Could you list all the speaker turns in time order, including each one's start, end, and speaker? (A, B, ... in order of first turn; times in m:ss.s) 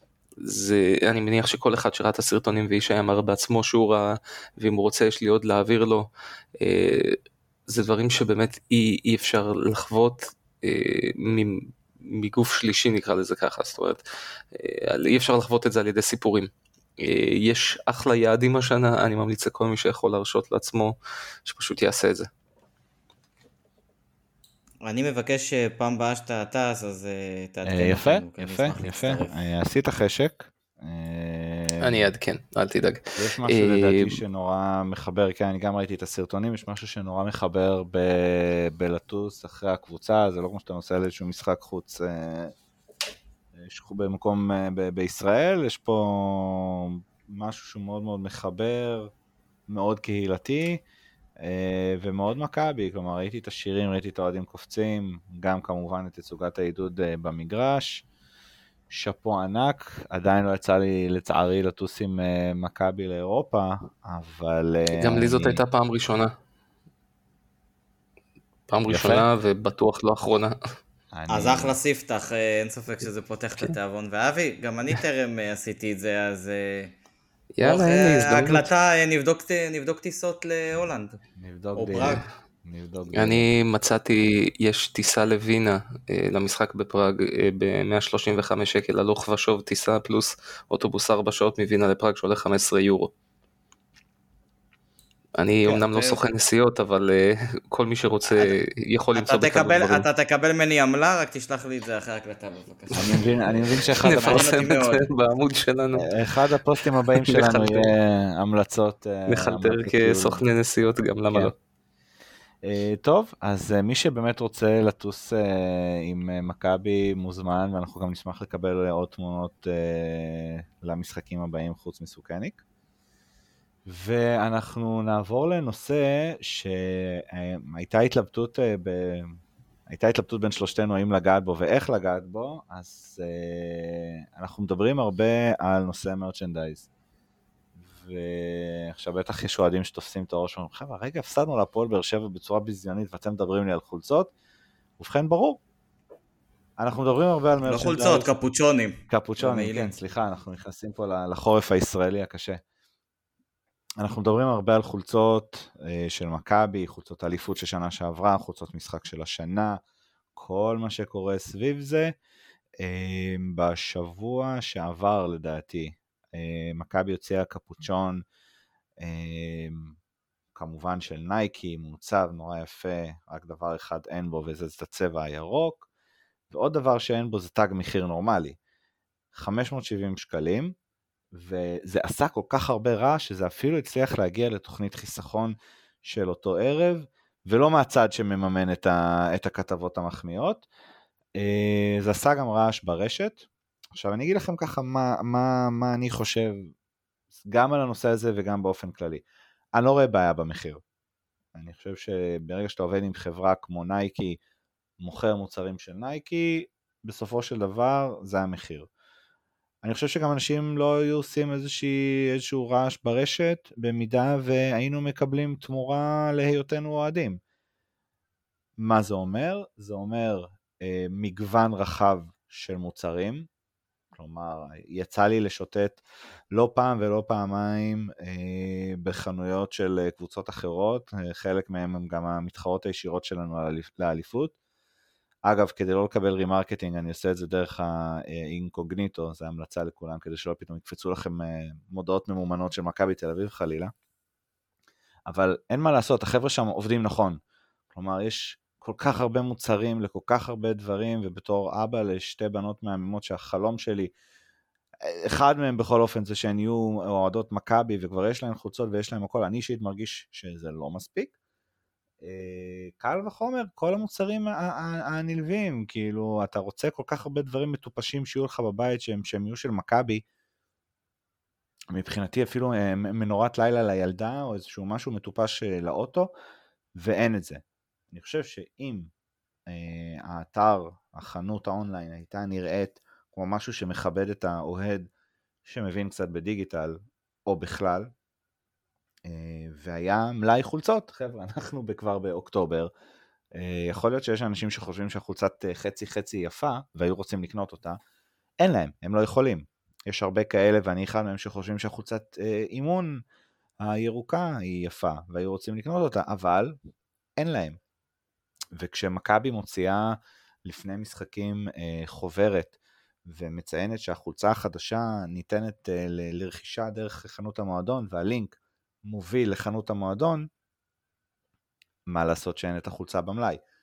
0:00.4-0:22.3 A
0:24.8-0:29.4 B
0:27.6-0:32.1 C
0:31.8-0:34.2 A
0:33.2-0:42.5 C
0:43.6-0:49.1 C
0:49.7-0:50.8 C
0:51.4-0:58.0 C
0:58.9-1:05.6 C
1:05.0-1:06.4 A
1:08.7-1:10.6 A
1:08.9-1:09.3 C
1:11.1-1:11.8 C
1:11.3-1:16.9 B
1:17.6-1:18.7 A
1:17.6-1:21.2 B
1:21.4-1:23.5 C
1:21.8-1:22.2 B
1:23.1-1:33.1 A
1:35.4-1:40.1 A
1:35.7-1:36.2 B
1:38.3-1:38.6 B
1:39.2-1:45.1 B
1:42.9-1:44.5 C
1:44.0-1:46.1 A
1:46.0-1:50.4 C
1:47.2-1:47.9 A
1:49.3-1:51.5 A
1:52.6-2:02.6 C
2:03.9-2:09.4 C
2:09.9-2:16.9 C
2:17.8-2:24.3 C
2:25.0-2:25.6 C
2:26.8-2:28.3 C
2:27.6-2:29.9 B
2:29.1-2:32.6 C
2:34.0-2:39.8 C
2:40.4-2:42.2 C
2:42.8-2:48.2 C
2:49.0-2:50.0 C
2:50.6-2:55.9 C
2:56.5-2:58.6 C
2:59.3-3:00.7 C
3:01.3-3:10.7 C
3:11.4-3:16.7 C
3:17.4-3:20.8 C
3:21.6-3:24.4 C
3:25.0-3:28.9 C
3:29.8-3:37.4 C
3:38.8-3:43.5 C
3:44.1-3:54.5 C
3:55.5-4:03.9 C
4:05.3-4:07.4 C
4:07.9-4:14.1 C
4:15.0-4:21.3 C
4:22.2-4:30.2 C
4:31.9-4:36.3 C
4:37.0-4:39.1 C
4:39.7-4:45.1 C
4:45.6-4:48.1 C
4:49.3-4:52.9 C
4:53.6-4:58.0 C
4:58.6-5:03.2 C
5:03.8-5:06.8 C
5:07.4-5:07.8 C
5:08.8-5:20.5 C
5:22.1-5:23.6 C